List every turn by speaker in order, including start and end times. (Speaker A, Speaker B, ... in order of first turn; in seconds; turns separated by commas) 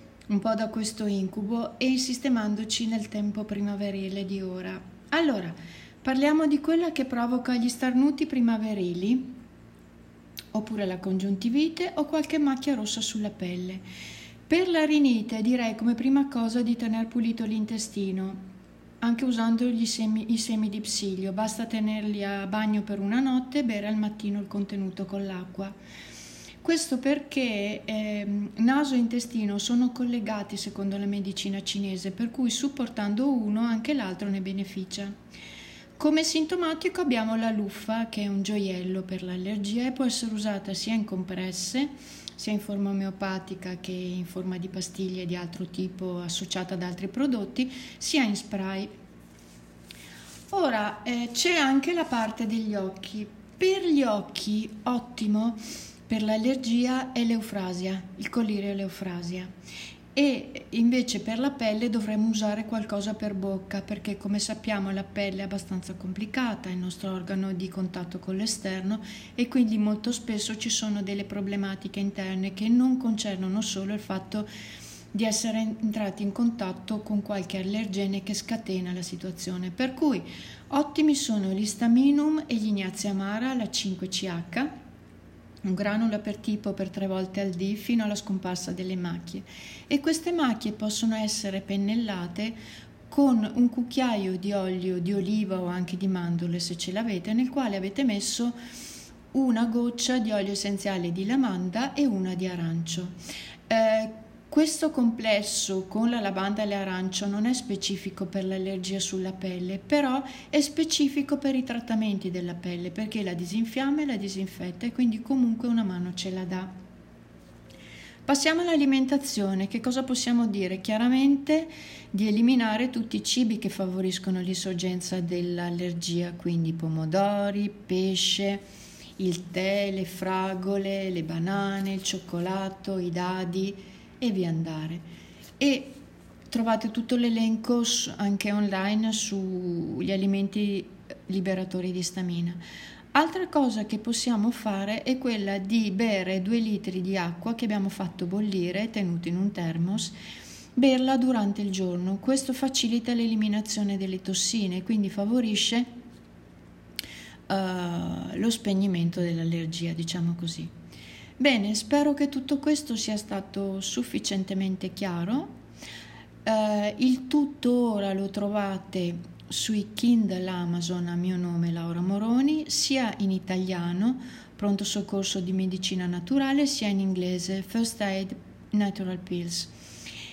Speaker A: 0.3-9.3, Speaker A: 10.5-13.8, Speaker A: 14.5-18.4, Speaker A: 19.0-25.8, Speaker A: 26.6-35.1, Speaker A: 36.0-48.9, Speaker A: 50.5-59.5, Speaker A: 60.1-74.5, Speaker A: 75.1-84.7, Speaker A: 85.6-92.6, Speaker A: 93.1-98.6, Speaker A: 99.3-103.1, Speaker A: 103.7-116.7, Speaker A: 118.2-128.6, Speaker A: 129.2-135.0, Speaker A: 135.6-136.0, Speaker A: 136.5-142.6, Speaker A: 143.1-150.1, Speaker A: 150.8-155.9, Speaker A: 157.5-160.7, Speaker A: 161.4-165.5, Speaker A: 166.4-179.7